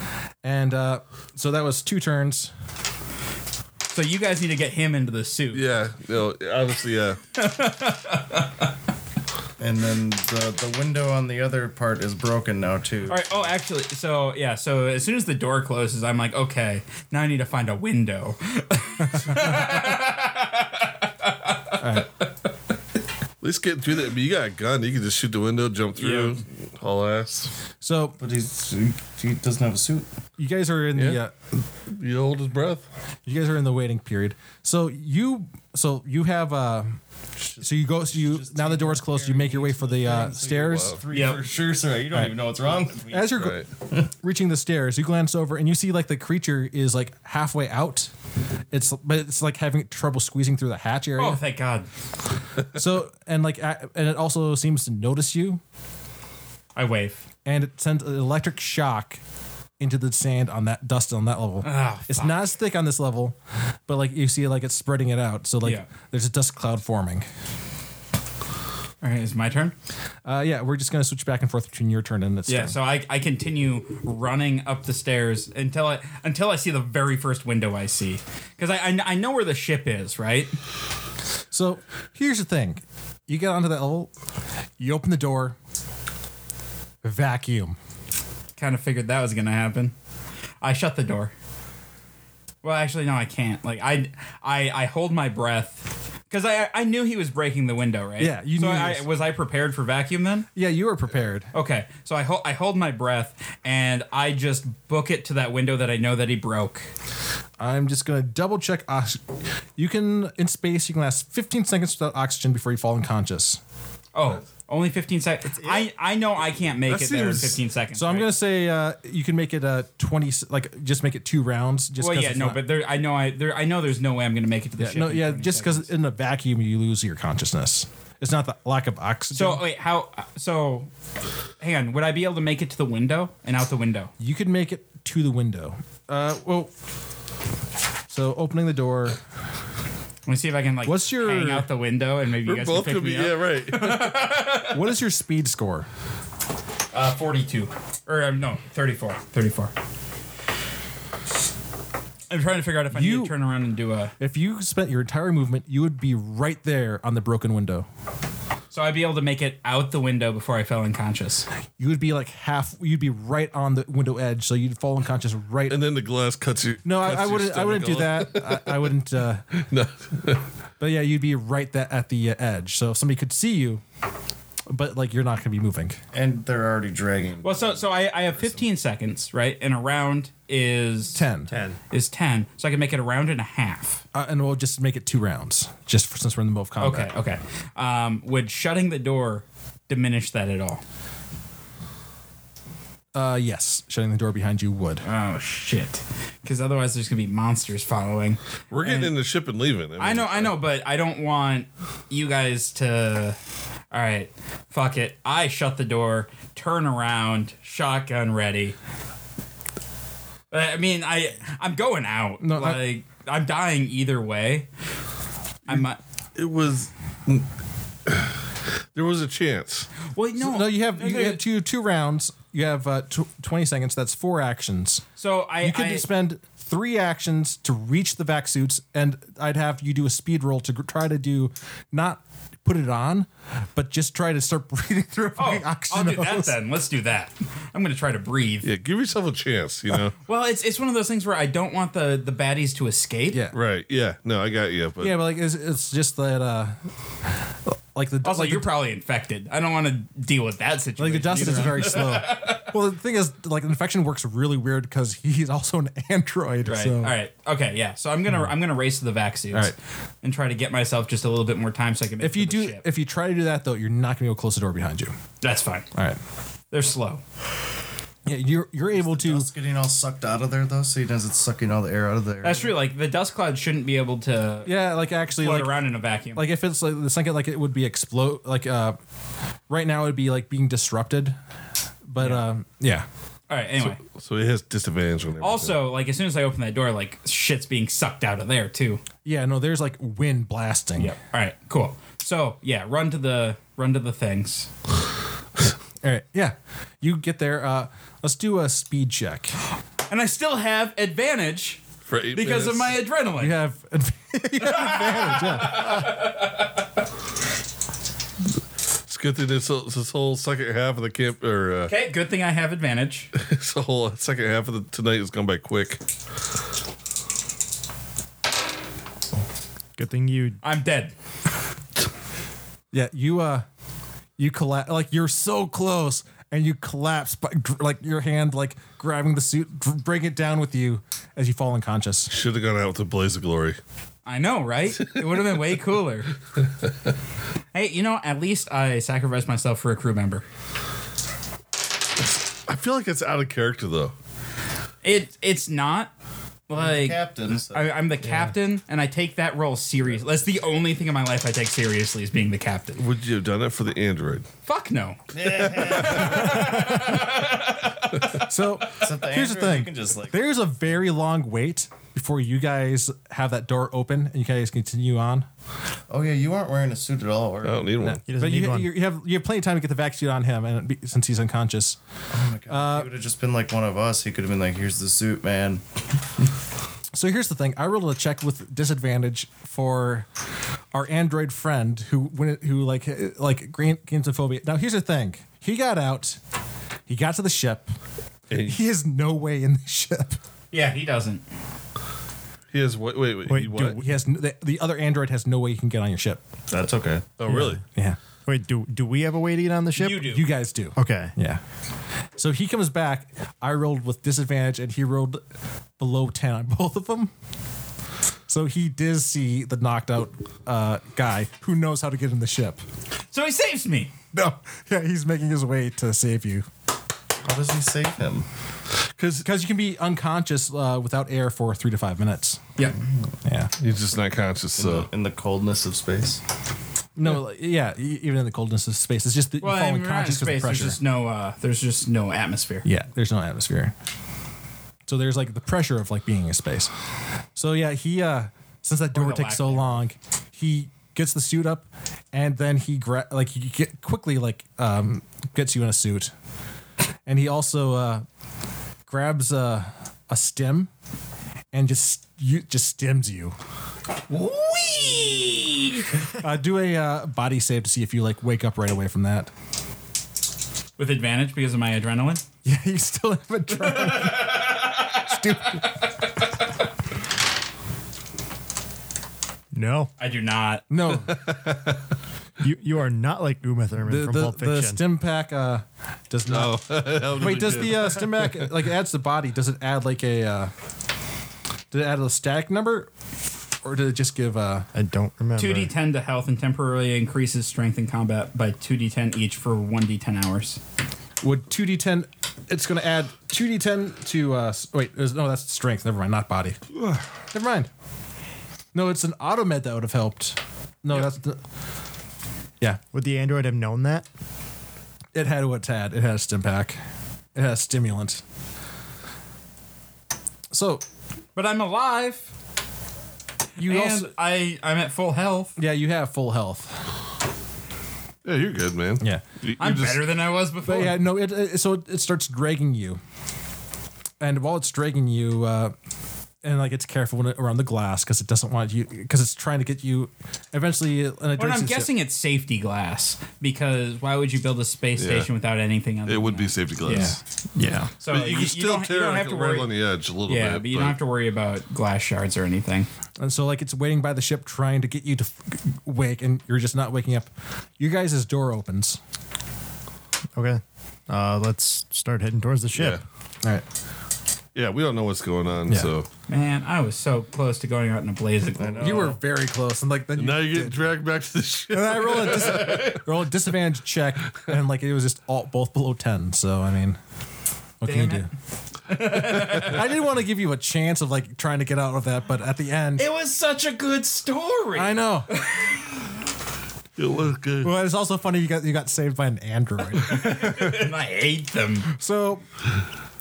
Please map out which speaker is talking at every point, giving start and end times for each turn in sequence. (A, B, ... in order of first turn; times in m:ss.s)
0:00.4-0:02.5 A
0:03.9-0:05.6 B
0:05.5-0:07.2 C
0:07.4-0:08.6 B
0:09.6-0:13.5 D
0:13.1-0:22.0 B
0:19.1-0:19.7 A
0:21.8-0:22.1 A
0:23.4-0:27.5 C
0:26.0-0:26.4 B
0:27.8-0:28.2 A
0:28.2-0:30.1 D
0:30.4-0:31.6 A
0:31.9-0:32.8 C
0:33.2-0:37.0 A
0:37.4-0:44.0 D
0:37.6-0:41.0 A
0:41.1-0:41.4 B
0:43.1-0:48.1 A
0:43.4-0:43.6 C
0:48.7-0:51.4 A
0:51.2-0:51.9 B
0:52.7-0:55.6 A
0:56.8-0:57.2 B
0:57.4-0:59.2 A
0:59.8-1:07.3 A
1:01.6-1:02.4 B
1:05.6-1:05.9 B
1:09.0-1:09.7 B
1:10.2-1:12.8 A
1:12.5-1:20.6 B
1:21.5-1:24.1 A
1:24.8-1:25.6 A
1:27.0-1:27.8 A
1:28.6-1:29.9 B
1:30.6-1:31.3 B
1:32.6-1:40.5 B
1:38.2-1:39.1 A
1:40.5-1:41.5 A
1:41.5-1:46.9 B
1:47.6-1:49.2 A
1:49.8-1:53.6 A
1:54.1-1:58.3 B
1:55.5-1:55.9 E
1:56.9-1:57.6 C
1:57.9-2:02.6 A
2:02.0-2:05.9 B
2:04.8-2:09.6 A
2:09.3-2:10.9 B
2:11.6-2:14.1 B
2:14.2-2:16.7 A
2:18.1-2:19.2 A
2:20.3-2:24.8 B
2:20.8-2:21.7 A
2:22.4-2:24.0 C
2:24.6-2:25.9 A
2:26.9-2:29.7 B
2:32.3-2:34.1 B
2:32.9-2:33.3 A
2:34.2-2:37.9 A
2:38.7-2:41.4 B
2:41.8-2:45.8 A
2:45.7-2:48.9 C
2:46.8-2:49.6 A
2:49.5-2:50.4 C
2:50.8-2:53.8 A
2:54.7-2:56.0 A
2:56.1-2:58.5 D
2:57.4-3:01.2 B
3:01.1-3:01.5 A
3:01.5-3:01.8 E
3:01.9-3:04.0 B
3:04.1-3:07.1 A
3:06.8-3:10.8 B
3:13.1-3:15.0 A
3:15.0-3:19.1 B
3:18.7-3:20.5 C
3:20.0-3:23.4 B
3:23.9-3:28.8 B
3:30.5-3:34.7 B
3:32.4-3:32.8 A
3:35.6-3:36.0 B
3:36.4-3:37.4 C
3:38.1-3:38.3 C
3:38.9-3:39.9 C
3:40.1-3:41.4 B
3:40.4-3:45.0 A
3:45.2-3:46.1 B
3:45.6-3:56.6 A
3:55.4-3:58.7 B
3:58.6-4:00.1 C
4:00.2-4:03.4 B
4:03.3-4:03.6 A
4:03.5-4:05.2 C
4:05.0-4:06.8 A
4:07.3-4:08.7 A
4:08.2-4:12.7 B
4:11.0-4:17.1 A
4:16.6-4:22.8 B
4:22.2-4:25.1 A
4:25.4-4:25.9 B
4:25.9-4:26.2 A
4:26.7-4:27.2 B
4:28.2-4:29.5 A
4:28.9-4:32.7 D
4:32.4-4:34.7 B
4:34.6-4:35.8 A
4:35.4-4:36.5 B
4:36.3-4:39.0 A
4:39.7-4:41.4 A
4:42.0-4:43.0 A
4:42.2-4:42.4 B
4:43.5-4:44.0 B
4:43.8-4:45.8 C
4:45.4-4:49.0 B
4:49.2-4:51.1 A
4:51.0-4:54.7 B
4:56.0-4:59.6 A
5:00.1-5:01.8 B
5:02.1-5:03.0 C
5:02.3-5:03.6 B
5:03.4-5:06.1 A
5:04.6-5:06.5 B
5:09.1-5:11.9 C
5:11.9-5:13.3 B
5:13.3-5:16.0 C
5:20.0-5:20.6 E
5:20.6-5:21.1 B
5:22.9-5:23.6 A
5:24.4-5:32.3 A
5:32.3-5:33.8 C
5:34.2-5:36.3 B
5:37.7-5:40.4 B
5:42.7-5:44.1 C
5:45.0-5:46.1 B
5:46.7-5:53.0 B
5:46.7-5:48.5 D
5:53.0-5:54.4 C
5:54.6-5:58.3 B
5:55.3-5:56.7 D
5:55.7-5:56.5 C
5:58.3-6:05.5 A
5:59.0-6:00.4 D
6:06.1-6:07.8 D
6:07.6-6:08.2 C
6:08.0-6:12.0 A
6:08.3-6:08.9 E
6:12.3-6:15.8 D
6:12.7-6:13.1 A
6:17.1-6:20.3 A
6:20.9-6:26.4 A
6:27.1-6:27.9 A
6:28.5-6:28.8 C
6:28.5-6:30.4 A
6:30.7-6:31.4 B
6:32.7-6:34.0 C
6:33.5-6:34.0 E
6:33.7-6:36.4 A
6:36.7-6:37.3 D
6:37.4-6:37.8 C
6:37.5-6:38.2 A
6:38.4-6:40.2 E
6:40.0-6:40.4 B
6:40.2-6:41.6 A
6:41.0-6:41.3 E
6:42.4-6:45.4 A
6:46.0-6:47.3 A
6:48.5-6:52.8 A
6:53.3-6:54.1 B
6:54.3-6:56.7 A
6:57.4-6:58.4 D
6:59.1-6:59.4 C
6:59.4-7:02.7 A
7:03.4-7:03.7 A
7:03.8-7:05.1 C
7:04.8-7:06.4 D
7:07.2-7:11.0 A
7:09.6-7:12.8 B
7:12.8-7:13.9 A
7:15.1-7:16.9 A
7:17.6-7:26.3 A
7:19.1-7:20.0 B
7:27.2-7:28.2 A
7:29.0-7:30.9 A
7:31.7-7:33.6 A
7:34.3-7:36.1 B
7:36.4-7:39.5 A
7:41.0-7:42.4 B
7:42.6-7:45.9 A
7:43.8-7:46.0 B
7:49.7-7:50.1 E
7:50.2-7:50.8 B
7:50.9-7:51.4 A
7:51.2-7:52.0 C
7:52.6-7:55.0 E
7:54.0-8:00.7 A
7:56.5-7:58.7 C
8:01.9-8:03.1 A
8:03.8-8:04.9 A
8:04.9-8:05.9 E
8:05.6-8:10.8 B
8:11.4-8:16.9 A
8:17.5-8:17.9 A
8:18.9-8:21.6 A
8:23.1-8:24.3 E
8:25.3-8:27.0 A
8:27.5-8:28.4 A
8:30.7-8:31.0 A
8:31.5-8:32.5 B
8:33.8-8:35.8 B
8:33.8-8:34.3 A
8:35.8-8:37.0 A
8:38.4-8:40.3 C
8:39.8-8:41.2 B
8:40.8-8:43.2 A
8:44.4-8:45.9 A
8:46.6-8:52.1 A
8:51.6-8:57.4 B
8:55.2-8:55.5 C
8:56.2-8:57.4 C
8:57.1-8:57.4 A
8:57.8-8:58.1 E
8:58.2-8:59.9 B
8:58.3-9:01.2 C
9:00.5-9:03.1 B
9:03.4-9:09.2 A
9:10.5-9:13.2 E
9:12.9-9:13.2 C
9:14.7-9:16.3 C
9:16.5-9:19.3 B
9:18.8-9:19.4 D
9:19.0-9:21.0 A
9:20.4-9:23.2 C
9:21.9-9:27.2 A
9:28.0-9:28.5 A
9:28.0-9:28.5 B
9:29.0-9:30.0 B
9:29.4-9:33.2 A
9:33.2-9:36.2 B
9:34.9-9:35.5 A
9:37.2-9:37.9 C
9:37.8-9:41.0 A
9:40.2-9:42.1 B
9:42.1-9:42.6 A